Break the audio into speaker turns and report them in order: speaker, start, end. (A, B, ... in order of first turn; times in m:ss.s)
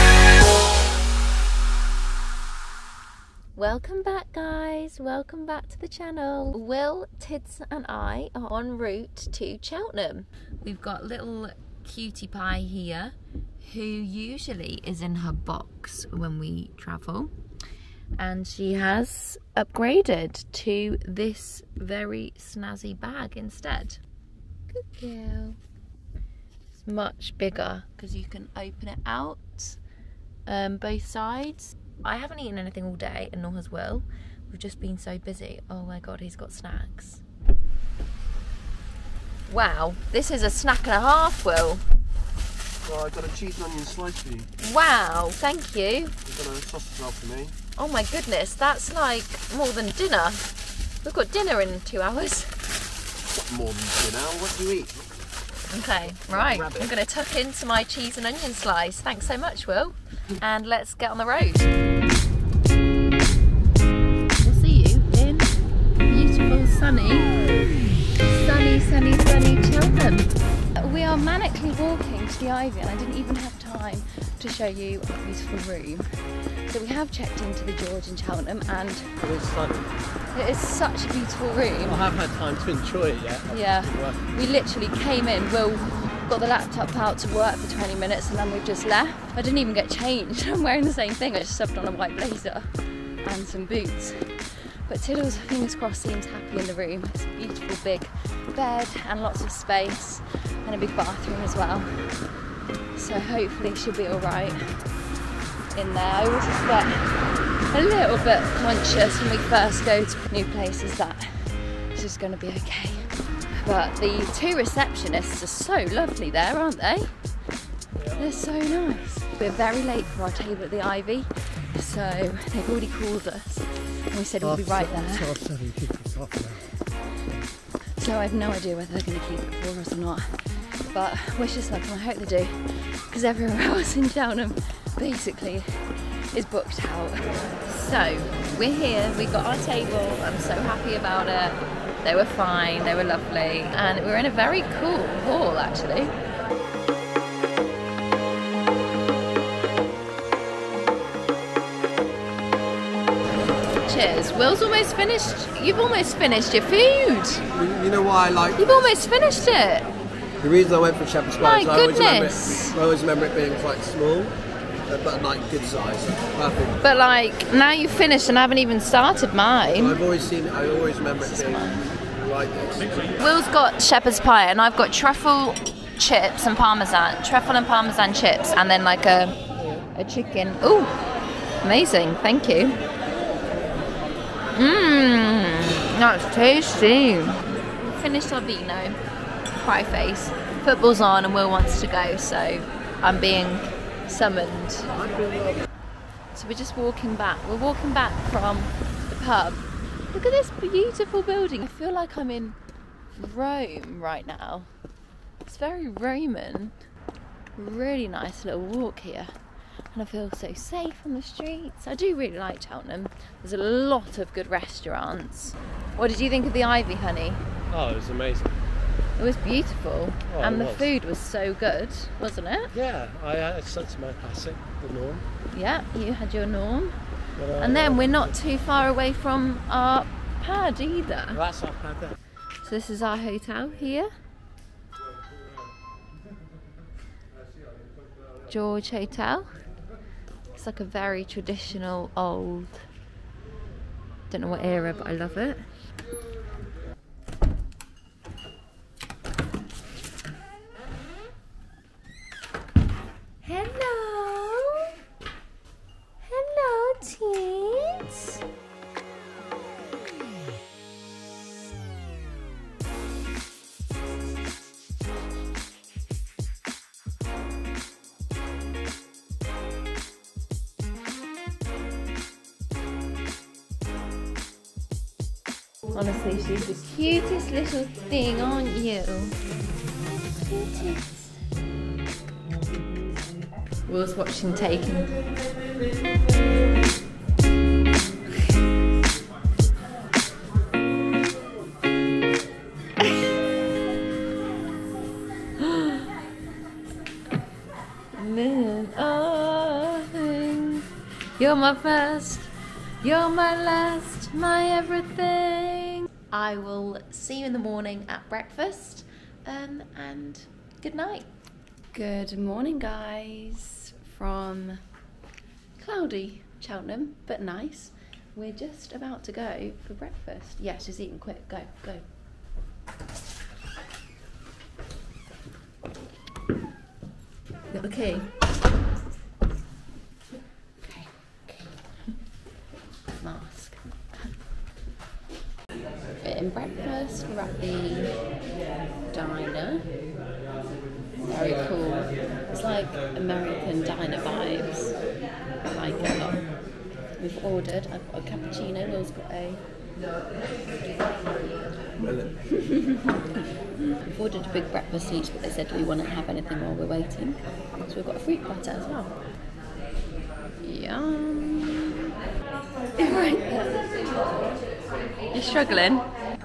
0:03.5-0:17.3 A
0:18.2-0:24.0 A
0:24.7-0:25.6 A
0:26.8-0:29.8 A
0:30.4-0:37.2 A
0:39.5-0:41.8 A
0:42.8-0:44.5 B
0:44.6-0:46.1 A
0:46.2-0:47.5 B
0:47.8-0:52.7 A
0:53.2-0:55.0 B
0:55.7-1:01.7 A
0:55.8-0:56.9 B
1:04.4-1:05.5 A
1:06.1-1:07.4 A
1:08.2-1:19.2 A
1:19.2-1:19.9 B
1:20.3-1:22.0 A
1:21.8-1:24.2 B
1:23.5-1:32.7 A
1:33.2-1:42.3 A
1:42.9-1:44.9 A
1:45.7-1:47.1 A
1:47.7-1:57.1 A
1:58.0-1:58.5 B
1:58.2-2:05.4 A
2:04.4-2:06.7 B
2:08.0-2:26.2 A
2:33.8-2:37.4 A
2:37.5-2:39.0 B
2:38.6-2:39.9 A
2:40.4-2:46.8 B
2:41.4-2:42.8 A
2:46.8-2:50.0 A
2:49.7-2:53.1 B
2:51.2-2:51.9 A
2:53.2-2:59.4 A
2:59.9-3:01.0 A
3:01.6-3:02.8 A
3:04.6-3:09.0 A
3:09.5-3:15.0 A
3:15.0-3:15.5 B
3:16.3-3:22.6 A
3:23.2-3:24.7 A
3:25.4-3:26.8 A
3:27.6-3:29.3 A
3:29.9-3:37.4 A
3:37.7-3:38.5 B
3:39.2-3:42.7 A
3:40.3-3:40.9 B
3:42.7-3:45.2 B
3:45.5-3:47.0 A
3:47.4-3:48.4 B
3:47.6-3:51.4 A
3:51.3-3:52.2 B
3:52.6-3:54.1 A
3:58.5-3:59.5 A
4:00.5-4:02.8 A
4:04.3-4:05.6 A
4:13.4-4:14.9 A
4:16.2-4:18.4 A
4:35.9-4:39.4 A
4:40.3-4:41.3 A
4:43.8-4:45.2 A
4:53.0-4:53.4 A
4:55.6-4:56.1 A
4:58.1-5:00.8 A
5:01.4-5:11.3 A
5:11.9-5:14.8 A
5:15.8-5:22.0 A
5:27.7-5:28.4 A
5:30.8-5:32.1 A
5:33.2-5:34.4 A
5:36.2-5:38.1 A
5:39.1-5:39.9 A
5:41.2-5:45.0 A
5:45.6-5:46.5 A
5:47.2-5:49.6 A
5:52.0-5:52.4 B
5:52.6-5:53.2 A
5:53.9-5:59.1 A
6:00.6-6:02.0 A
6:03.0-6:04.1 A
6:05.3-6:06.1 A